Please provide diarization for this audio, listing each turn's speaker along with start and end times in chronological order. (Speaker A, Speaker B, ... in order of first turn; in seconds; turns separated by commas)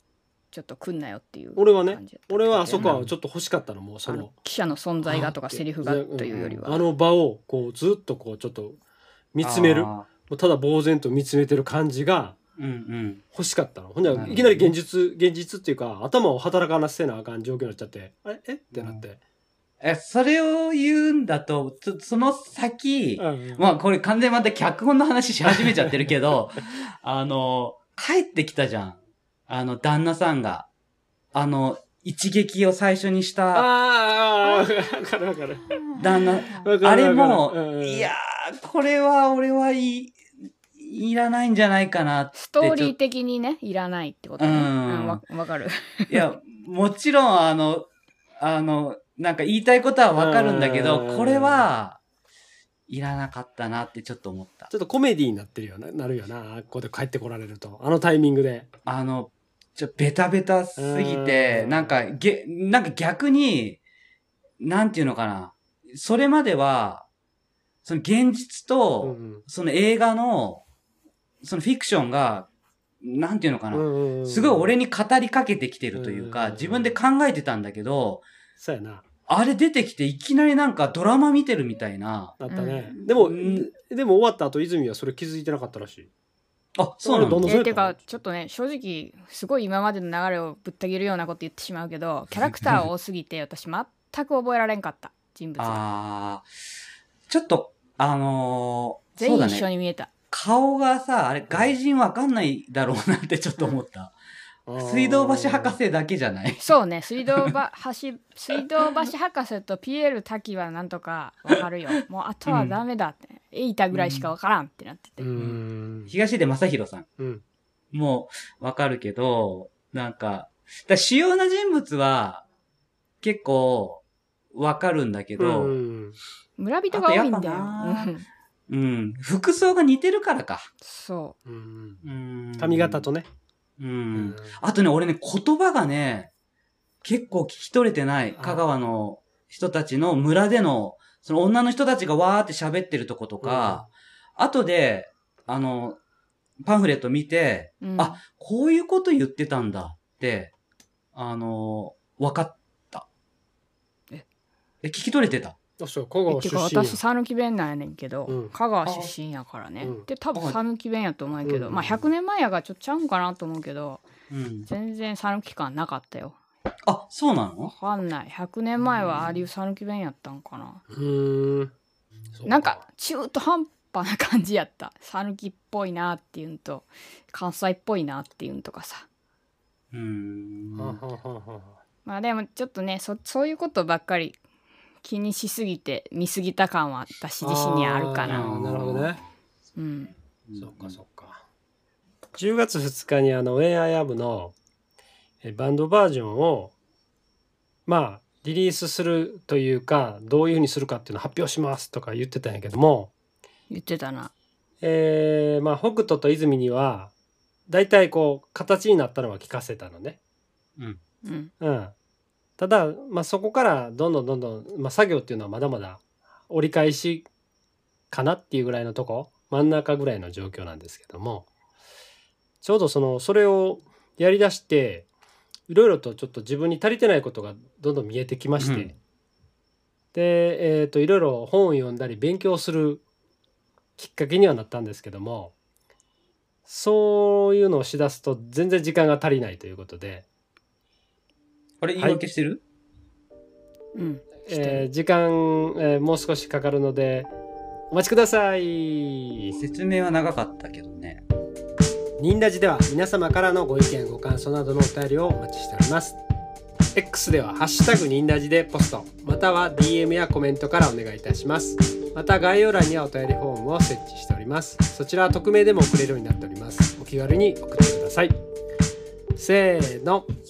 Speaker A: 0.5-2.9, Speaker B: 1.6-4.3, Speaker C: 2.8-3.1, Speaker A: 4.0-6.9, Speaker B: 5.0-8.8, Speaker B: 9.3-12.4, Speaker C: 9.4-10.1, Speaker C: 12.6-13.2, Speaker B: 13.3-19.2, Speaker C: 14.1-14.7, Speaker C: 18.7-19.0, Speaker C: 19.8-29.0, Speaker B: 23.2-23.6, Speaker B: 25.5-25.9, Speaker C: 29.5-30.7, Speaker C: 31.3-33.7, Speaker B: 33.5-35.8, Speaker C: 36.0-40.2, Speaker B: 36.6-38.1, Speaker C: 40.8-42.9, Speaker A: 42.3-46.2, Speaker C: 44.4-45.2, Speaker C: 46.1-47.9, Speaker C: 48.4-52.0, Speaker B: 50.1-51.7, Speaker C: 52.9-54.7, Speaker B: 54.7-58.7, Speaker C: 58.9-63.8, Speaker B: 60.8-62.1, Speaker C: 64.6-67.0, Speaker C: 67.8-70.6, Speaker B: 69.0-69.4, Speaker C: 71.4-72.5, Speaker C: 73.0-78.2, Speaker B: 73.7-74.7, Speaker B: 75.9-77.0, Speaker B: 78.6-79.0, Speaker C: 79.3-82.4, Speaker B: 82.4-86.1, Speaker A: 82.5-82.9, Speaker C: 83.0-83.7, Speaker C: 86.8-87.5, Speaker B: 87.0-88.0, Speaker A: 87.4-95.8, Speaker C: 95.6-96.5, Speaker C: 97.3-99.7, Speaker A: 99.2-100.1, Speaker C: 100.3-104.1, Speaker B: 104.7-105.8, Speaker C: 104.8-106.8, Speaker A: 106.6-115.3, Speaker C: 112.5-112.8, Speaker C: 113.9-114.3, Speaker B: 115.2-116.1, Speaker C: 116.1-117.1, Speaker C: 117.9-122.4, Speaker C: 123.2-124.0, Speaker C: 124.5-125.8, Speaker B: 125.4-126.2, Speaker A: 126.6-128.2, Speaker C: 126.9-128.1, Speaker C: 128.7-130.7, Speaker A: 130.8-131.3, Speaker B: 131.4-132.0, Speaker C: 132.0-133.1, Speaker B: 132.6-133.3, Speaker C: 133.8-136.3, Speaker B: 134.1-134.6, Speaker C: 137.0-146.0, Speaker B: 138.3-138.6, Speaker B: 143.4-143.9, Speaker C: 146.6-150.5, Speaker A: 147.8-148.2, Speaker C: 151.1-153.0, Speaker C: 154.8-155.6, Speaker B: 155.8-157.0, Speaker A: 156.3-164.0, Speaker B: 158.3-158.5, Speaker C: 158.8-159.1, Speaker B: 159.8-160.1, Speaker C: 160.3-160.6, Speaker B: 161.4-162.0, Speaker C: 164.3-164.7, Speaker A: 164.7-166.4, Speaker C: 166.8-167.7, Speaker A: 167.6-170.8, Speaker B: 170.9-171.7, Speaker B: 172.3-172.8, Speaker A: 172.4-179.1, Speaker C: 179.9-181.0, Speaker B: 180.7-181.8, Speaker A: 182.1-184.4, Speaker A: 185.0-188.5, Speaker B: 187.4-189.2, Speaker C: 188.3-189.2, Speaker A: 189.8-190.1, Speaker C: 190.5-191.0, Speaker B: 190.6-191.4, Speaker B: 192.3-194.5, Speaker B: 195.4-196.7, Speaker B: 197.8-203.1, Speaker A: 203.7-204.3, Speaker B: 204.8-207.1, Speaker B: 207.7-210.2, Speaker A: 211.2-211.5, Speaker B: 211.6-211.9, Speaker B: 212.6-217.3, Speaker B: 218.1-221.5, Speaker B: 222.6-225.1, Speaker B: 225.7-228.9, Speaker C: 228.6-228.9, Speaker B: 230.1-233.0, Speaker B: 234.0-235.5, Speaker B: 236.7-240.2, Speaker C: 241.8-242.6, Speaker A: 243.9-244.8, Speaker B: 244.4-247.3, Speaker B: 247.9-249.6, Speaker C: 249.6-251.2, Speaker B: 252.2-256.2, Speaker B: 256.9-268.4, Speaker B: 269.4-270.3